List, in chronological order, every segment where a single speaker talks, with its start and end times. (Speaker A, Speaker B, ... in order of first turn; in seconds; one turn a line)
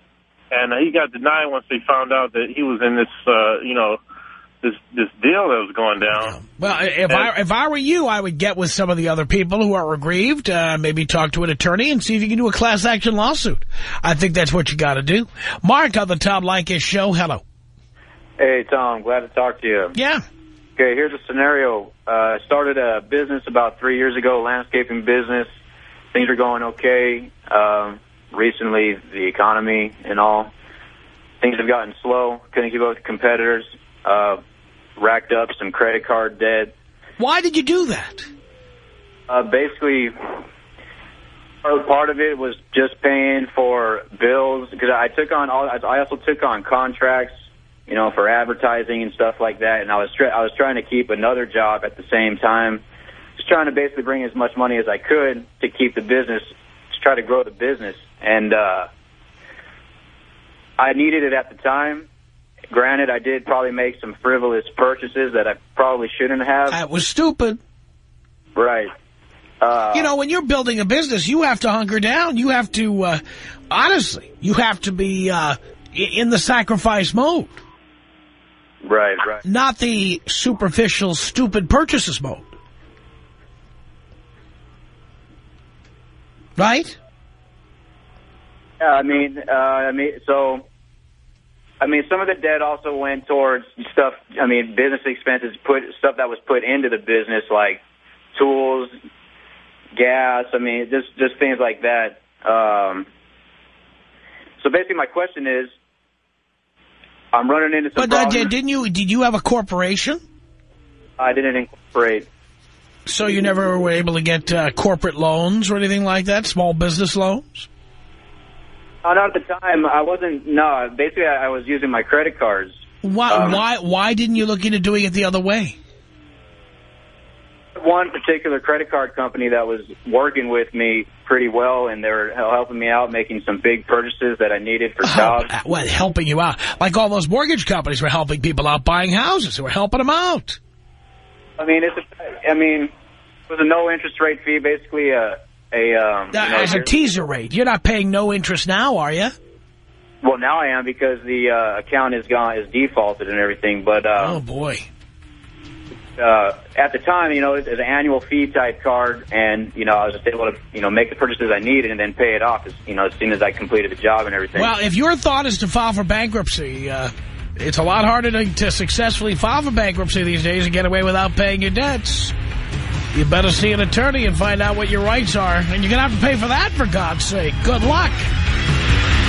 Speaker A: 0.5-4.0
Speaker A: 4.6-6.4
Speaker B: 6.1-17.4
Speaker C: 18.4-20.0
Speaker B: 19.9-20.2
Speaker C: 20.8-25.5
Speaker C: 26.1-30.5
Speaker C: 31.4-34.4
Speaker C: 35.0-36.7
Speaker B: 37.2-38.3
Speaker C: 39.3-40.1
Speaker C: 41.6-47.3
Speaker C: 47.9-52.8
Speaker C: 53.4-58.9
Speaker C: 60.8-62.1
Speaker C: 62.7-66.8
Speaker B: 66.7-67.6
Speaker C: 68.6-68.9
Speaker C: 69.6-70.1
Speaker B: 69.9-77.6
Speaker C: 78.8-79.4
Speaker B: 79.4-82.6
Speaker B: 86.6-87.0
Speaker C: 88.8-90.7
Speaker C: 91.8-97.8
Speaker C: 98.3-98.9
Speaker C: 100.0-103.1
Speaker C: 104.6-105.7
Speaker C: 107.3-108.5
Speaker B: 108.0-110.2
Speaker C: 111.2-112.3
Speaker B: 113.1-117.7
Speaker C: 119.0-123.6
Speaker B: 123.0-125.8
Speaker C: 127.8-135.5
Speaker B: 135.0-140.6
Speaker C: 141.6-142.9
Speaker C: 143.5-146.9
Speaker B: 146.3-149.3
Speaker C: 150.2-154.4
Speaker B: 154.2-154.9
Speaker C: 156.2-164.7
Speaker B: 164.6-172.4
Speaker B: 173.1-178.3